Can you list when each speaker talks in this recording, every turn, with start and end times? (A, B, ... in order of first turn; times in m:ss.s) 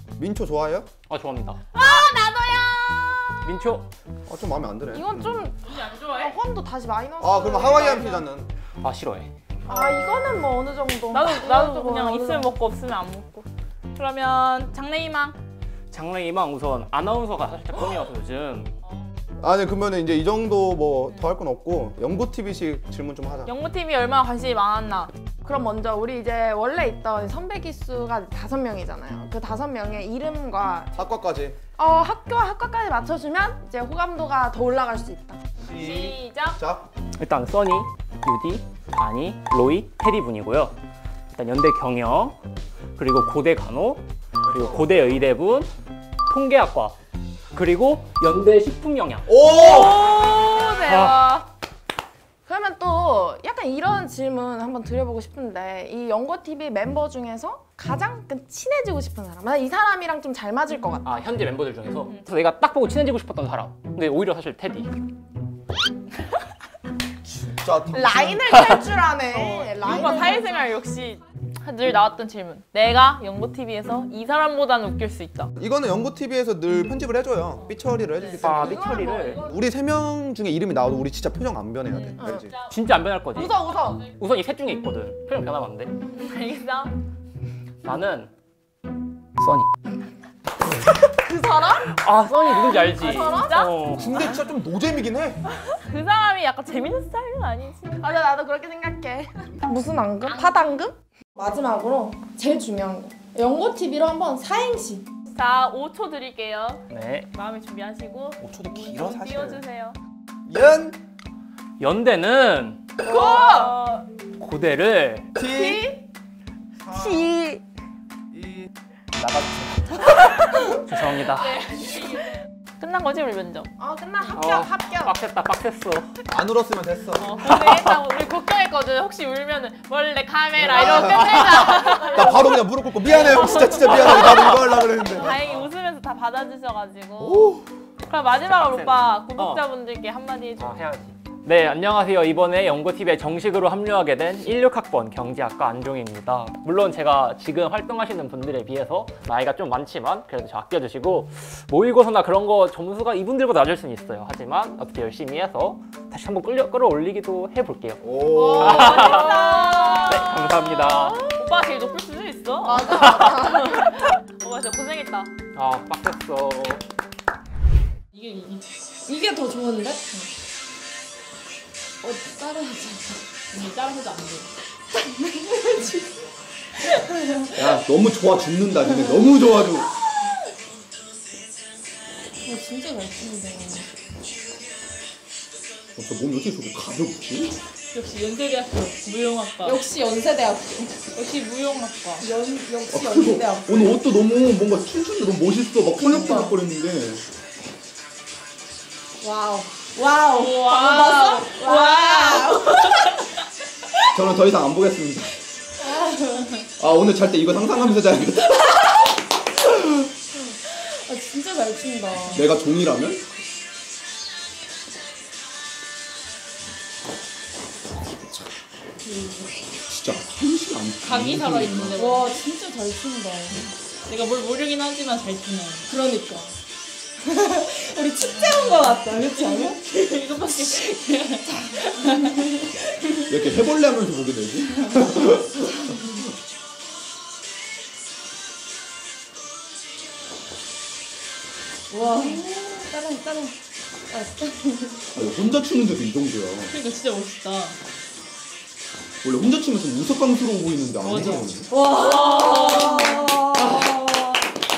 0:00.2-0:00.9 A
0:01.1-0:01.6 B
0:01.7-0:02.1 C
0:01.7-0:03.4 D
0:03.4-0:03.9 B
0:04.3-0:05.4 A
0:04.9-0:08.2 D
0:05.6-0:06.4 C
0:07.2-0:08.5 A
0:08.8-0:09.3 B
0:09.6-0:12.5 D
0:11.1-0:15.4 C
0:15.9-0:18.7 B
0:19.4-0:23.5 A
0:21.1-0:21.3 C
0:23.4-0:25.1 C
0:25.4-0:31.0 D
0:31.0-0:31.6 A
0:31.8-0:35.4 D
0:35.6-0:36.8 A
0:35.7-0:36.6 C
0:37.2-0:40.8 B
0:41.3-0:42.4 B
0:43.0-0:45.7 B
0:44.5-0:44.8 A
0:46.3-0:47.0 B
0:47.5-0:49.3 B
0:49.2-0:50.2 A
0:49.5-0:51.5 C
0:50.1-0:50.6 D
0:50.8-0:51.3 B
0:52.4-1:01.2 D
1:01.0-1:04.9 B
1:07.2-1:08.6 A
1:07.9-1:10.6 D
1:09.3-1:15.5 C
1:15.6-1:22.5 A
1:17.6-1:18.5 C
1:18.3-1:19.7 D
1:18.4-1:19.4 B
1:21.9-1:22.7 C
1:22.2-1:22.4 D
1:22.7-1:25.9 B
1:23.3-1:24.0 D
1:26.1-1:26.9 C
1:27.8-1:28.3 B
1:29.4-1:29.7 B
1:31.0-1:31.9 D
1:31.9-1:34.4 B
1:32.7-1:33.7 D
1:33.0-1:33.7 C
1:33.9-1:35.4 A
1:35.7-1:38.0 C
1:38.0-1:45.0 D
1:45.3-1:50.0 C
1:46.9-1:47.3 B
1:48.4-1:49.6 A
1:50.4-1:51.0 A
1:51.8-1:52.8 B
1:53.0-1:53.7 D
1:53.0-1:54.0 C
1:54.4-1:55.3 B
1:55.4-1:55.8 A
1:55.4-1:56.0 D
1:56.8-1:57.4 A
1:56.9-1:57.6 D
1:58.3-2:00.4 A
2:00.8-2:01.8 B
2:01.3-2:03.7 C
2:03.8-2:05.2 D
2:04.3-2:06.1 B
2:06.3-2:07.4 A
2:07.2-2:20.8 C
2:07.4-2:07.9 B
2:10.6-2:15.4 A
2:11.4-2:12.1 B
2:13.7-2:14.6 B
2:15.2-2:15.7 B
2:17.2-2:17.6 A
2:18.4-2:19.6 B
2:20.6-2:39.4 B
2:38.0-2:39.1 A
2:38.4-2:45.3 C
2:38.4-2:40.1 D
2:40.0-2:41.2 B
2:42.6-2:44.0 D
2:42.8-2:43.4 B
2:45.5-2:46.8 B
2:48.1-2:49.1 C
2:49.0-2:50.3 D
2:52.0-2:53.3 D
2:53.5-2:54.5 C
2:54.9-2:56.2 D
2:57.5-2:59.9 A
2:58.8-2:59.6 D
3:02.4-3:03.9 D
3:06.0-3:07.6 A
3:07.9-3:09.8 C
3:09.6-3:11.0 D
3:11.1-3:12.3 C
3:12.2-3:13.9 D
3:12.9-3:17.2 A
3:16.0-3:16.6 D
3:19.2-3:23.1 D
3:20.3-3:23.1 C
3:24.1-3:25.3 A
3:25.8-3:26.6 D
3:26.8-3:29.0 A
3:30.3-3:32.5 D
3:32.3-3:33.3 A
3:39.0-3:39.5 D
3:39.9-3:42.0 A
3:41.0-3:42.4 C
3:42.0-3:43.6 D
3:43.5-3:45.9 C
3:45.9-3:46.5 D
3:47.2-3:50.2 D
3:48.2-3:52.6 C
3:52.1-3:52.5 D
3:53.2-3:55.8 A
4:01.9-4:03.5 D
4:02.0-4:02.4 C
4:04.1-4:05.0 D
4:05.1-4:06.7 A
4:06.7-4:07.8 C
4:09.2-4:11.7 A
4:11.0-4:13.6 C
4:11.7-4:14.4 D